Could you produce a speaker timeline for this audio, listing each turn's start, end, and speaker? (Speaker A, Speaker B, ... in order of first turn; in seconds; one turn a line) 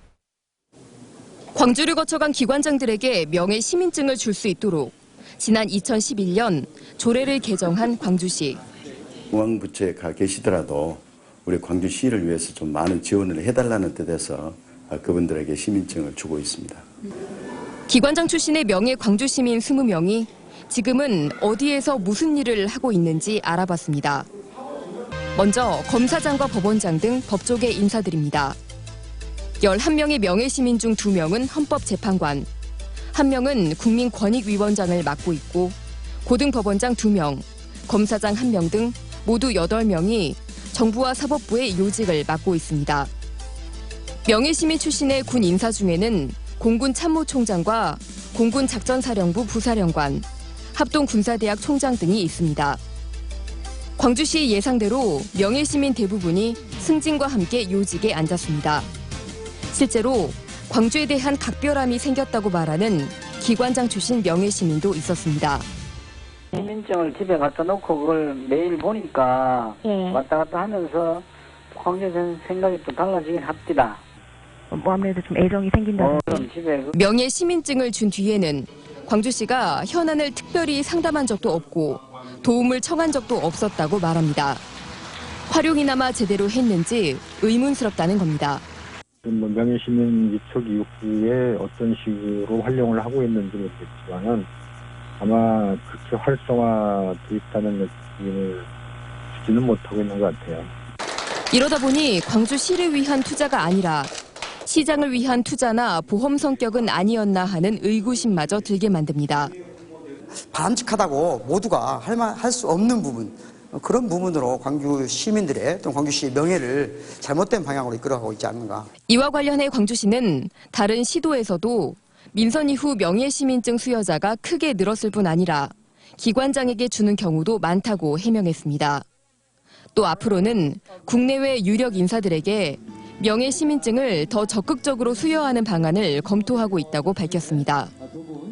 Speaker A: 1.5-8.6
Speaker B: 9.3-16.9
Speaker A: 17.9-24.3
Speaker A: 25.3-28.6
Speaker A: 29.6-32.5
Speaker A: 33.1-43.1
Speaker A: 44.2-52.8
Speaker A: 54.0-58.9
Speaker A: 59.7-65.7
Speaker C: 66.5-74.0
Speaker D: 69.8-70.1
Speaker D: 74.7-76.4
Speaker C: 76.0-76.9
Speaker A: 76.9-84.6
Speaker A: 85.5-88.6
Speaker E: 89.2-94.5
Speaker E: 95.2-98.7
Speaker E: 99.3-100.7
Speaker A: 101.5-104.1
Speaker A: 104.6-109.5
Speaker F: 110.5-118.9
Speaker A: 119.1-129.0
Speaker A: 129.9-137.9